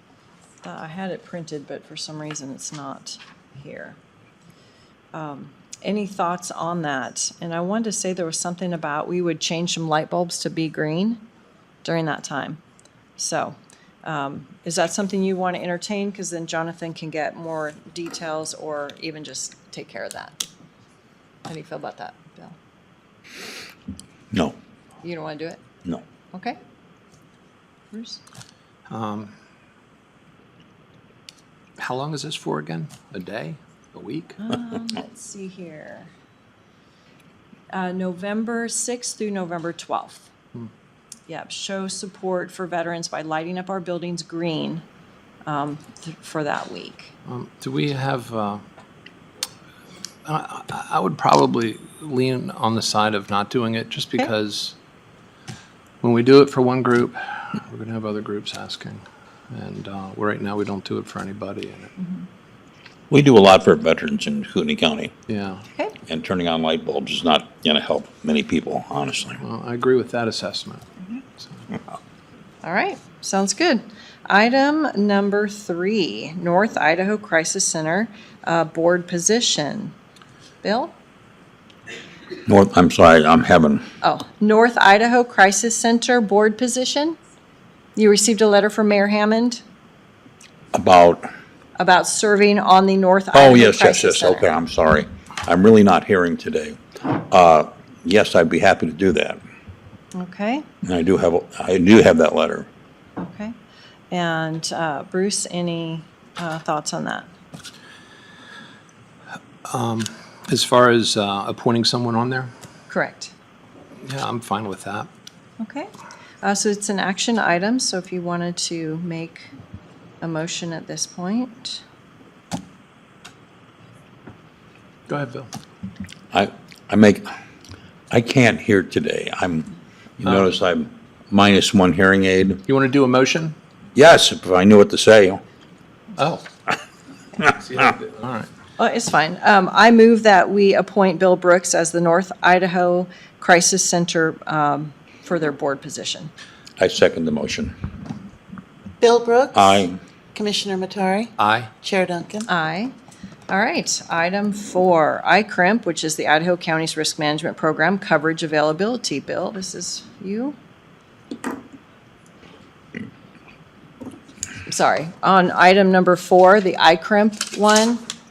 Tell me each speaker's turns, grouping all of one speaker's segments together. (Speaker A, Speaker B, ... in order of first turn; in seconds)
Speaker A: 0.6-4.0, 5.1-11.2, 11.8-12.6, 13.2-20.4, 21.4-22.6, 25.0-25.6, 26.3-26.6, 27.9-28.2, 34.4-36.1, 37.7-40.3, 41.3-44.8, 45.5-47.1, 72.6-79.9, 80.6-80.9, 84.0-87.2, 88.0-89.6, 91.8-94.5, 100.1-100.6, 103.2-103.5, 104.1-107.3, 112.9-113.3, 115.6-115.9, 116.4-119.5, 120.2-121.8, 138.8-146.3, 152.5-152.9, 153.5-160.6, 164.7-168.0
Speaker B: 24.3-24.6, 63.1-65.1, 66.1-69.4, 82.5-83.8, 90.7-91.3, 93.3-99.4, 100.8-102.7, 126.3-127.2, 128.1-132.6, 133.9-135.4, 146.8-147.7, 149.5-150.0
Speaker C: 28.9-29.3, 31.8-34.4, 47.3-48.6, 50.3-54.7, 56.0-59.0, 59.5-61.9, 65.3-65.6, 69.4-70.8, 71.4-71.7, 109.7-112.5, 114.0-115.1, 125.1-125.5, 130.2-130.5, 132.7-133.6, 136.2-136.5, 137.5-138.5, 151.4-151.7
Speaker D: 149.0-152.5